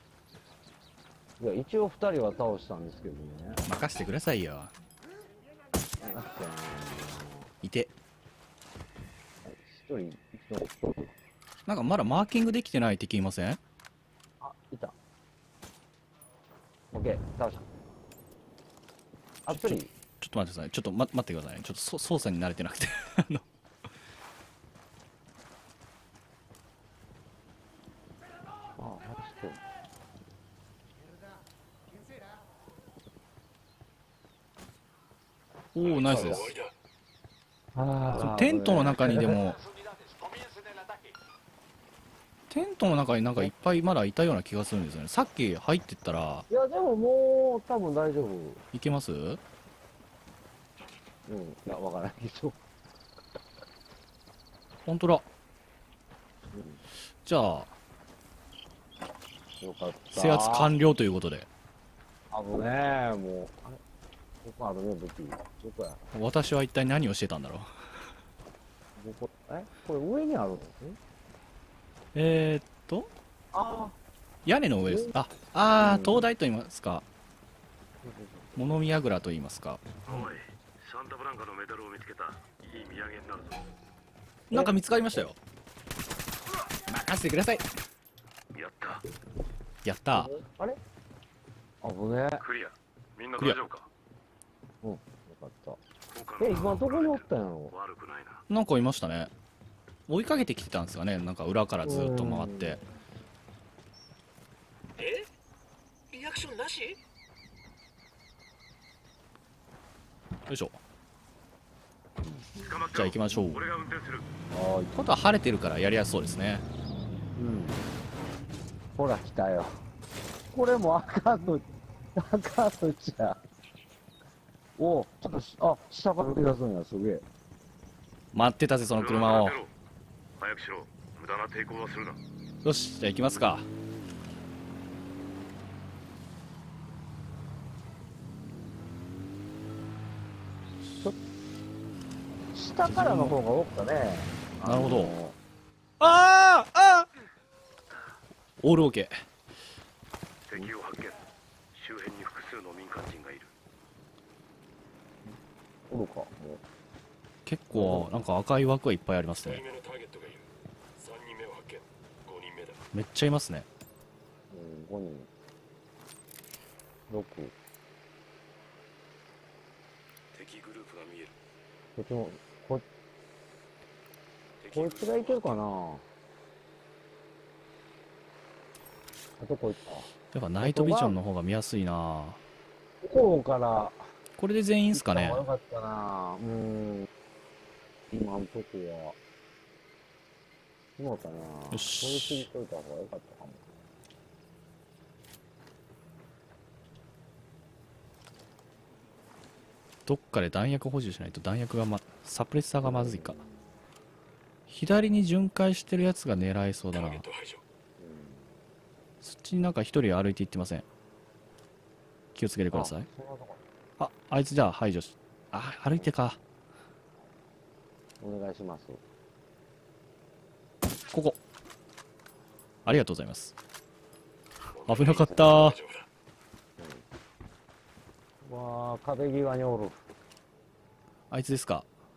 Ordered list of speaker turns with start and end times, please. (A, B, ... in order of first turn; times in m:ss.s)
0:01.4-0:03.6 A
0:03.7-0:04.7 B
0:06.0-0:07.5 A
0:07.6-0:07.9 B
0:09.4-0:11.1 A
0:11.7-0:13.6 B
0:14.4-0:15.0 A
0:16.9-0:17.6 A
0:19.5-0:19.9 A
0:19.5-0:23.5 B
0:28.8-0:29.6 A
0:35.8-0:36.5 B
0:35.9-0:36.7 C
0:36.0-0:36.4 A
0:37.8-0:39.4 A
0:38.1-0:39.6 B
0:42.5-0:46.4 B
0:46.5-0:48.6 A
0:48.7-0:49.4 B
0:51.3-0:52.6 A
0:54.9-0:55.3 B
0:56.5-0:56.8 A
0:57.2-0:57.7 B
0:59.6-1:00.7 A
1:00.1-1:01.5 B
1:02.3-1:03.8 A
1:04.4-1:06.0 A
1:06.1-1:07.7 B
1:09.0-1:11.0 A
1:12.1-1:13.1 B
1:13.5-1:14.0 A
1:14.5-1:17.0 B
1:14.8-1:15.1 A
1:15.8-1:16.3 A
1:18.0-1:18.7 A
1:18.6-1:19.8 B
1:20.1-1:23.6 C
1:24.5-1:25.4 B
1:24.5-1:25.2 A
1:26.9-1:27.6 B
1:28.5-1:29.0 C
1:29.8-1:30.3 B
1:30.1-1:30.8 A
1:31.8-1:32.4 A
1:32.4-1:33.9 C
1:34.8-1:35.8 A
1:36.1-1:38.4 C
1:36.4-1:37.7 A
1:38.5-1:39.3 B
1:40.1-1:42.8 B
1:41.8-1:42.8 A
1:45.0-1:45.3 C
1:46.1-1:47.0 C
1:50.5-1:50.8 B
1:52.2-1:52.5 A
1:52.6-1:54.3 C
1:52.9-1:53.6 B
1:54.5-1:55.0 A
1:54.9-1:56.6 B
1:57.4-1:57.8 A
1:59.0-1:59.8 A
2:00.5-2:01.6 A
2:02.2-2:03.4 A
2:04.8-2:07.2 A
2:08.3-2:09.6 B
2:09.0-2:09.7 C
2:10.4-2:12.2 C
2:12.6-2:13.7 B
2:22.5-2:25.4 A
2:22.8-2:23.4 B
2:24.6-2:25.1 B
2:26.0-2:27.1 B
2:28.6-2:29.1 B
2:30.5-2:31.2 C
2:31.7-2:33.5 C
2:35.9-2:36.6 A
2:37.4-2:39.6 B
2:37.7-2:38.2 A
2:39.4-2:40.5 C
2:41.0-2:42.8 C
2:42.9-2:43.7 B
2:44.5-2:45.3 A
2:47.1-2:47.5 A
2:50.3-2:51.4 C
2:52.0-2:52.8 A
2:54.6-2:55.6 C
2:54.7-2:56.0 A
2:59.4-3:00.1 A
3:00.3-3:02.4 B
3:00.6-3:01.2 A
3:03.0-3:04.0 A
3:04.4-3:05.5 B
3:04.9-3:07.1 A
3:08.1-3:09.2 A
3:11.0-3:13.6 A
3:11.7-3:12.5 B
3:20.1-3:23.4 B
3:22.8-3:23.4 A
3:24.7-3:27.3 B
3:26.9-3:27.6 C
3:28.0-3:28.6 A
3:29.2-3:30.8 B
3:32.4-3:33.1 B
3:32.7-3:33.6 A
3:34.0-3:36.4 B
3:38.2-3:39.0 A
3:41.1-3:41.4 B
3:42.9-3:43.5 B
3:44.7-3:46.1 C
3:44.9-3:45.8 B
3:46.8-3:47.0 A
3:48.4-3:50.0 A
3:51.3-3:51.9 B